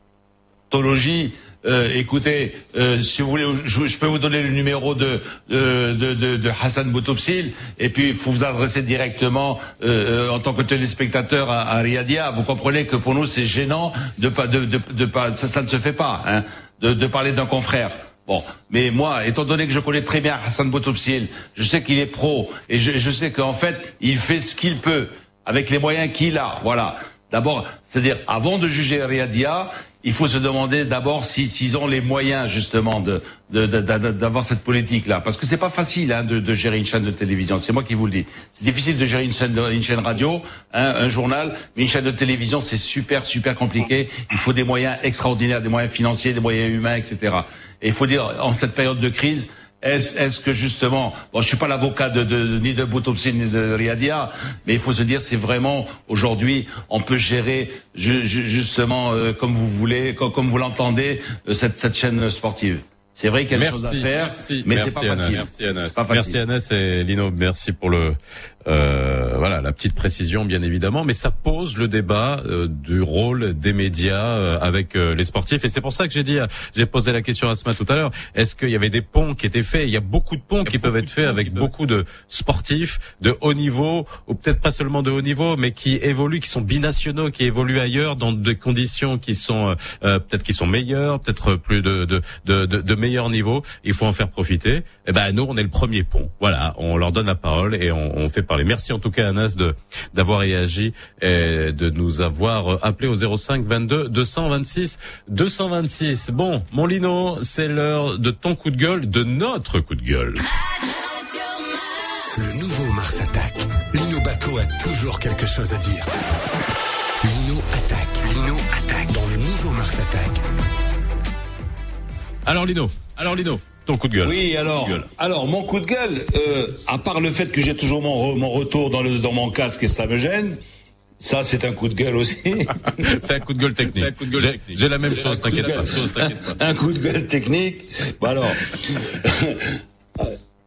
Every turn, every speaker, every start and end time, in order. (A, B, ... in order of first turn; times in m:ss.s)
0:00.7-1:06.4 A
1:03.5-1:50.4 B
1:52.3-1:56.1 C
1:57.2-2:00.4 C
2:02.4-2:05.0 B
2:04.2-2:10.6 A
2:11.2-2:12.9 A
2:13.0-2:16.6 B
2:14.1-2:20.3 A